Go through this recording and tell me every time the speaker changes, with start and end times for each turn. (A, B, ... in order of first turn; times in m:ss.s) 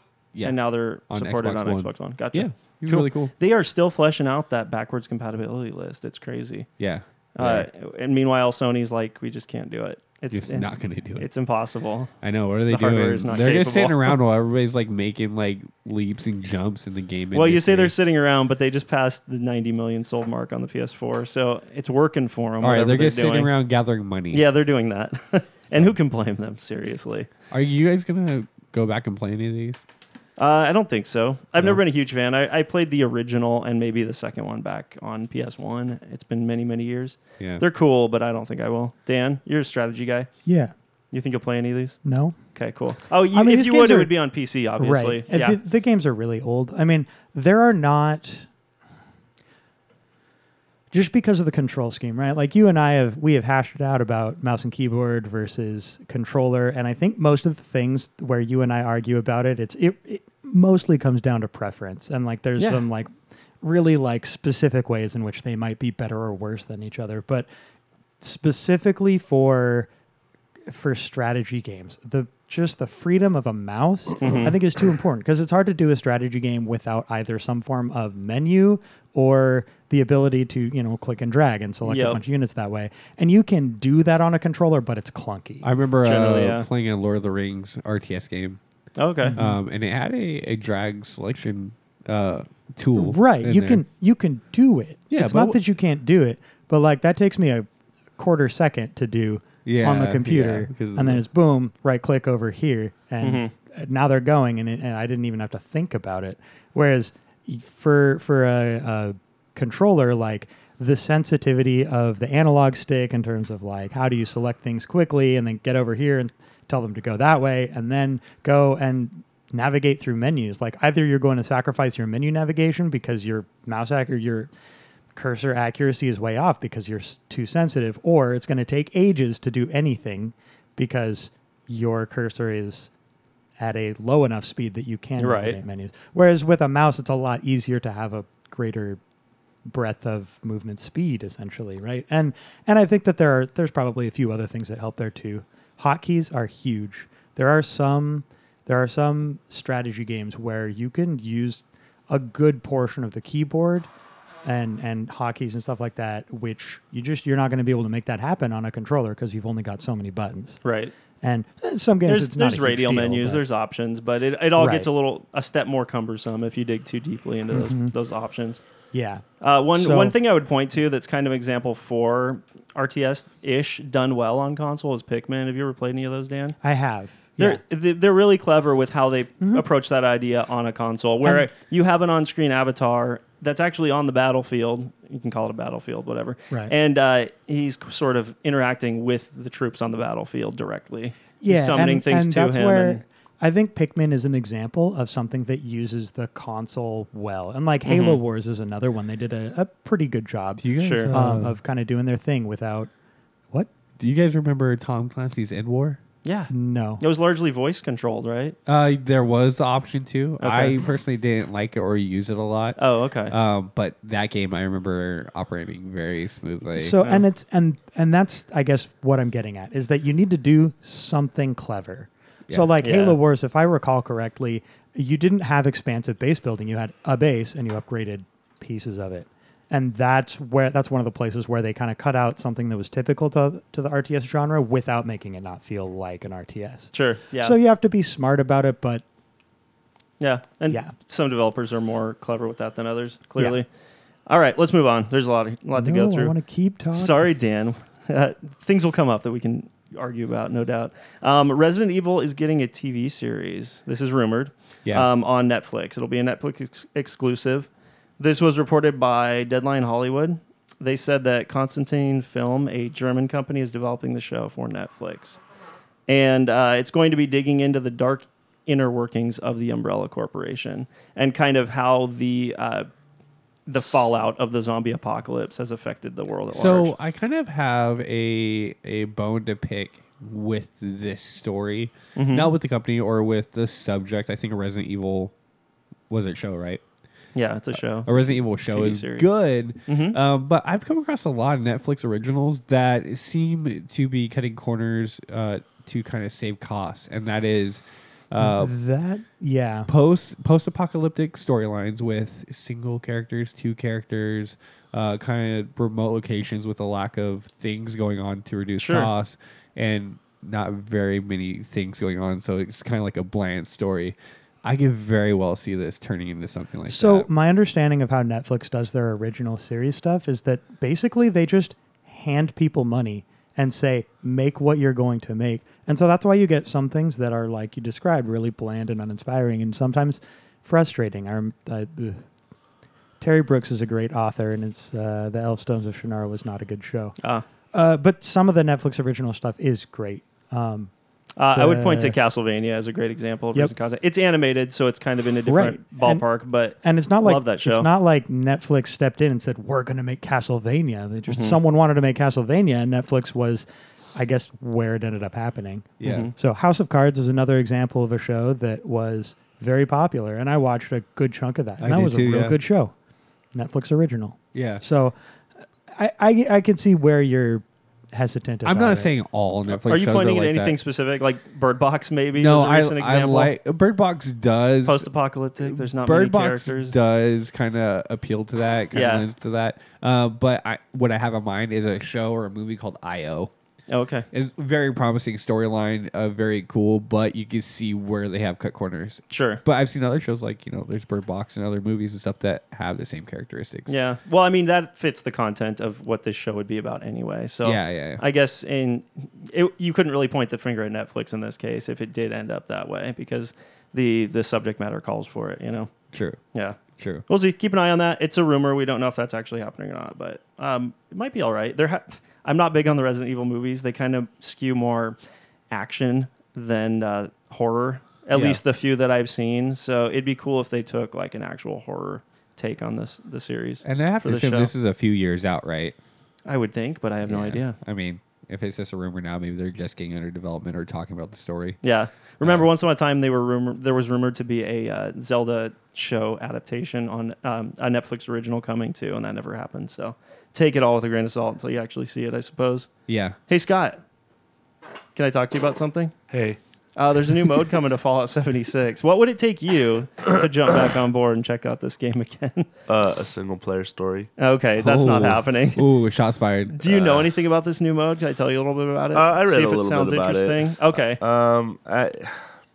0:00.3-0:03.3 A
0:00.4-0:06.7 B
0:06.8-0:07.7 A
0:07.3-0:10.7 B
0:10.3-0:11.3 A
0:11.2-0:12.1 B
0:12.2-0:17.9 A
0:12.7-0:14.2 B
0:17.3-0:23.5 B
0:22.6-0:24.4 A
0:24.3-0:27.3 B
0:27.5-0:29.8 A
0:30.4-0:40.3 B
0:37.4-0:37.6 A
0:40.4-0:40.7 C
0:41.1-0:42.0 B
0:42.0-0:42.4 C
0:42.5-0:45.6 B
0:43.3-0:44.1 C
0:44.8-0:48.4 C
0:50.9-1:03.1 C
1:02.6-1:02.8 B
1:03.6-1:07.5 C
1:08.2-1:09.9 C
1:10.7-1:25.7 C
1:14.2-1:14.6 B
1:21.8-1:22.2 B
1:25.6-1:28.6 A
1:26.0-1:26.7 B
1:29.0-1:29.3 B
1:29.2-1:29.6 C
1:29.3-1:33.8 A
1:33.0-1:37.6 C
1:35.1-1:35.6 A
1:38.2-2:04.5 C
1:39.6-1:41.2 A
1:43.2-1:43.5 B
2:05.1-2:12.9 C
2:13.6-2:19.0 C
2:15.2-2:15.6 B
2:19.7-2:33.9 C
2:34.4-2:40.6 C
2:40.6-2:40.9 B
2:41.2-2:43.4 C
2:42.0-2:48.6 B
2:44.6-2:44.9 C
2:47.5-2:47.9 C
2:48.9-2:50.1 C
2:49.4-2:56.6 B
2:56.6-2:57.6 C
2:57.4-3:13.0 B
3:01.2-3:01.5 C
3:11.4-3:22.9 C
3:17.8-3:18.2 B
3:20.6-3:21.6 A
3:20.8-3:21.2 B
3:24.0-3:26.0 A
3:26.2-3:28.6 B
3:26.5-3:27.0 C
3:28.6-3:32.8 A
3:30.4-3:30.8 B
3:32.8-3:33.3 B
3:33.3-3:37.0 A
3:36.7-3:59.0 C
3:42.8-3:43.2 B
3:56.9-3:57.6 B
4:00.2-4:03.7 B
4:00.7-4:01.0 C
4:04.3-4:06.3 B
4:05.7-4:07.3 C
4:06.9-4:25.4 B
4:26.1-4:32.9 B
4:33.6-4:36.9 B
4:36.5-4:45.3 A
4:42.1-4:42.5 B
4:46.1-4:46.8 A
4:47.3-4:49.3 B
4:47.8-4:58.7 A
4:49.9-4:50.2 B
4:58.4-4:59.9 C
4:59.9-5:17.3 A
5:08.8-5:09.1 B
5:16.9-5:32.2 C
5:33.2-5:37.2 C
5:37.2-5:37.4 B
5:37.7-5:40.9 C
5:41.4-5:47.9 B
5:41.5-5:42.2 C
5:45.5-5:46.2 C
5:46.8-6:02.9 C
5:51.3-5:51.6 B
5:56.0-5:56.3 A
5:56.0-5:56.3 B
6:01.8-6:02.6 A
6:03.5-6:05.1 C
6:04.5-6:04.8 A
6:06.0-6:09.1 C
6:08.6-6:10.8 A
6:09.8-6:13.5 B
6:12.3-6:15.1 A
6:14.8-6:17.0 B
6:15.6-6:23.5 A
6:18.9-6:19.3 B
6:23.9-6:24.3 B
6:24.3-6:33.9 A
6:29.3-6:29.6 B
6:33.9-6:45.9 B
6:37.6-6:38.2 A
6:46.1-6:46.4 A
6:46.5-6:55.2 B
6:47.0-6:47.2 A
6:55.7-7:04.7 B
6:58.3-6:58.6 A
7:03.8-7:06.0 A
7:06.5-7:07.8 B
7:07.2-7:11.8 A
7:11.8-7:22.9 B
7:12.4-7:12.7 A
7:23.1-7:23.4 A
7:23.5-7:24.0 B
7:25.1-7:26.1 B
7:26.3-7:26.6 D
7:27.0-7:32.7 B
7:32.9-7:34.3 D
7:34.4-7:35.8 B
7:34.8-7:36.9 A
7:36.7-7:41.2 B
7:36.8-7:37.3 D
7:39.1-7:42.4 D